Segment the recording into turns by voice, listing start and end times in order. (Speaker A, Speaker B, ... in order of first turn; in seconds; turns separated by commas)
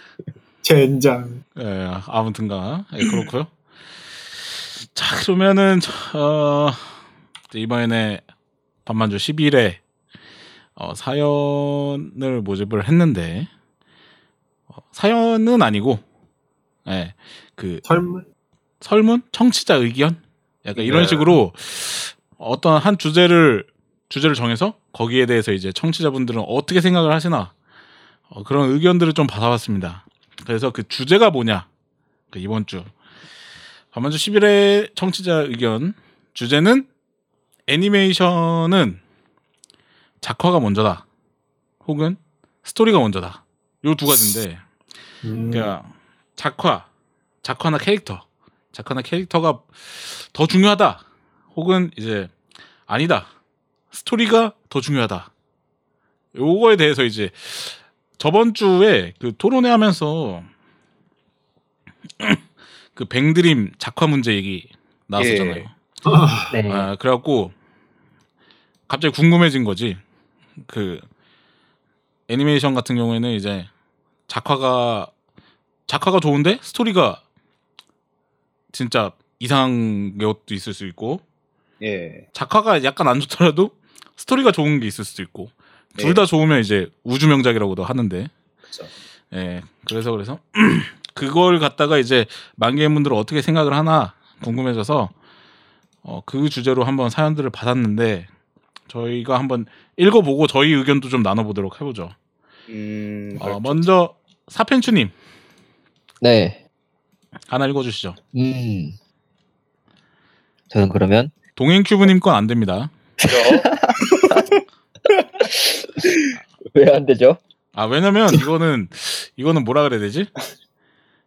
Speaker A: 0.6-1.4, Speaker B: 1.6-3.5, Speaker B: 4.9-7.0, Speaker B: 7.5-8.2, Speaker B: 8.8-9.8, Speaker B: 10.8-13.5, Speaker B: 14.9-16.0, Speaker B: 16.9-17.8, Speaker A: 17.9-18.3, Speaker B: 18.8-27.5, Speaker C: 20.8-21.1, Speaker A: 20.8-21.4, Speaker B: 28.3-31.7, Speaker B: 32.3-32.9, Speaker B: 33.9-36.9, Speaker B: 37.7-39.0, Speaker B: 40.2-41.0, Speaker B: 41.8-44.6, Speaker A: 45.2-45.7, Speaker B: 45.5-46.9, Speaker B: 47.4-52.3, Speaker B: 52.9-53.3, Speaker B: 53.9-55.3, Speaker B: 56.4-60.5, Speaker B: 63.0-65.7, Speaker C: 65.2-65.7, Speaker A: 66.0-66.5, Speaker D: 66.5-66.9, Speaker B: 66.7-67.5, Speaker B: 68.9-70.0, Speaker B: 70.6-71.0, Speaker B: 72.3-73.7, Speaker B: 74.3-75.1, Speaker B: 75.9-77.2, Speaker B: 78.7-81.2, Speaker C: 81.8-82.2, Speaker B: 82.3-88.3, Speaker C: 86.0-86.2, Speaker B: 89.3-95.1, Speaker B: 96.0-98.3, Speaker B: 98.9-102.1, Speaker C: 102.7-103.9, Speaker B: 103.4-105.1, Speaker D: 106.2-106.6, Speaker B: 107.5-108.2, Speaker D: 108.3-109.0, Speaker D: 110.7-111.3, Speaker B: 111.6-112.9, Speaker D: 113.2-114.4, Speaker C: 113.3-114.6, Speaker D: 115.5-115.9, Speaker D: 116.7-117.4, Speaker B: 117.7-120.3